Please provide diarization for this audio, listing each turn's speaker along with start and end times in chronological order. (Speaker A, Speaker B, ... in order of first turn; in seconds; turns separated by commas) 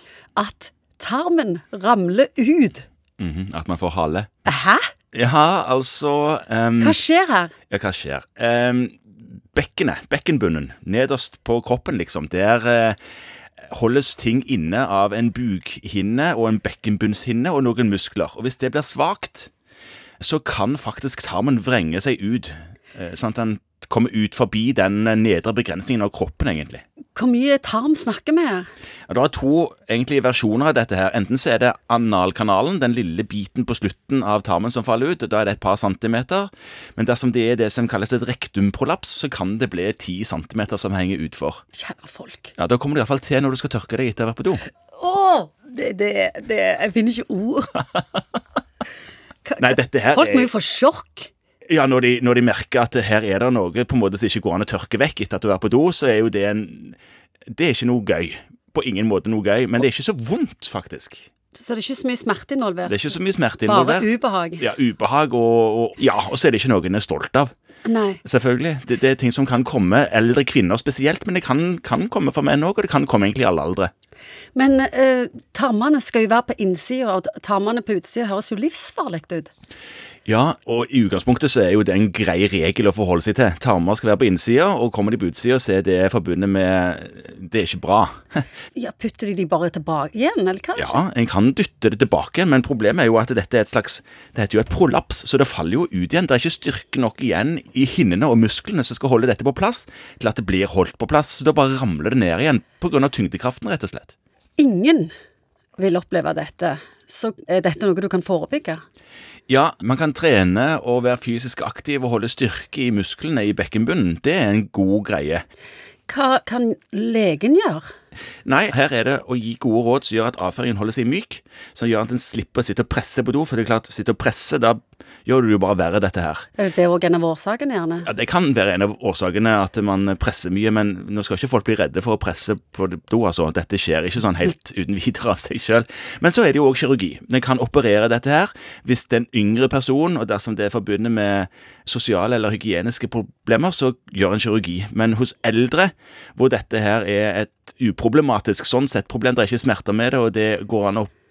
Speaker A: 0.3-2.9, Speaker B: 3.2-4.3, Speaker A: 4.4-4.9, Speaker B: 5.1-7.0, Speaker A: 6.8-7.5, Speaker B: 7.7-9.0, Speaker B: 9.5-13.0, Speaker B: 13.7-19.5, Speaker B: 20.2-26.8, Speaker A: 27.1-28.7, Speaker B: 29.1-41.6, Speaker A: 41.8-42.5, Speaker B: 42.6-44.6, Speaker A: 44.9-47.8, Speaker A: 49.4-51.3, Speaker B: 49.6-50.5, Speaker B: 51.7-57.0, Speaker B: 57.5-61.3, Speaker A: 61.5-64.7, Speaker B: 62.9-67.5, Speaker A: 67.8-68.2, Speaker B: 68.2-73.9, Speaker A: 74.5-79.5, Speaker B: 80.2-88.4, Speaker A: 88.7-91.0, Speaker B: 90.8-104.1, Speaker A: 104.6-105.1, Speaker A: 105.8-108.8, Speaker B: 109.5-115.4, Speaker A: 116.1-117.8, Speaker B: 118.4-126.5, Speaker A: 126.6-128.1, Speaker B: 128.0-151.1